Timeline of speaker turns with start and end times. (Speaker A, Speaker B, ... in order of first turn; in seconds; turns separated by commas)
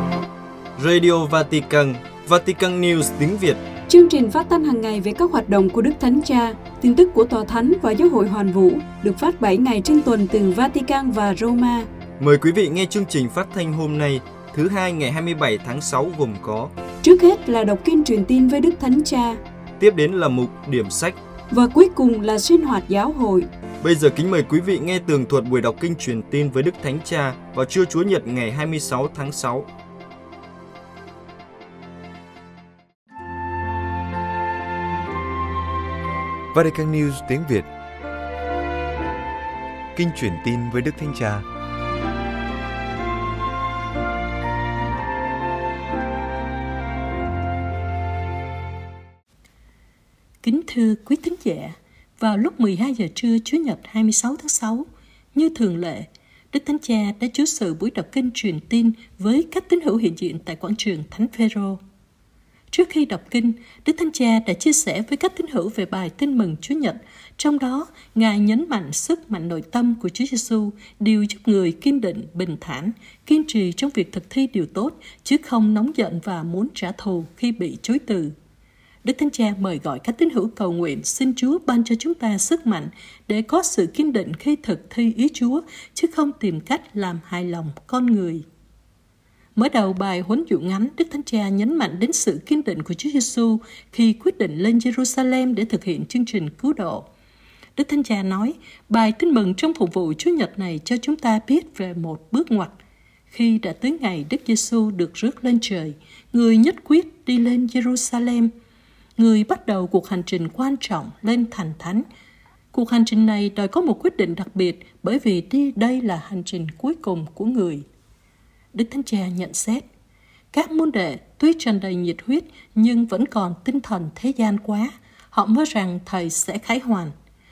Speaker A: 0.8-3.6, Speaker B: 3.9-11.9, Speaker A: 12.2-16.7, Speaker B: 17.0-19.4, Speaker A: 19.8-21.2, Speaker B: 21.5-23.5, Speaker A: 23.8-29.7, Speaker C: 36.5-37.7, Speaker C: 40.0-41.5, Speaker D: 50.4-61.8, Speaker D: 62.7-78.3, Speaker D: 79.0-88.4, Speaker D: 89.6-97.1, Speaker D: 97.8-102.8, Speaker D: 103.3-108.5, Speaker D: 109.2-112.0, Speaker D: 112.7-117.8, Speaker D: 118.7-119.8, Speaker D: 120.5-127.1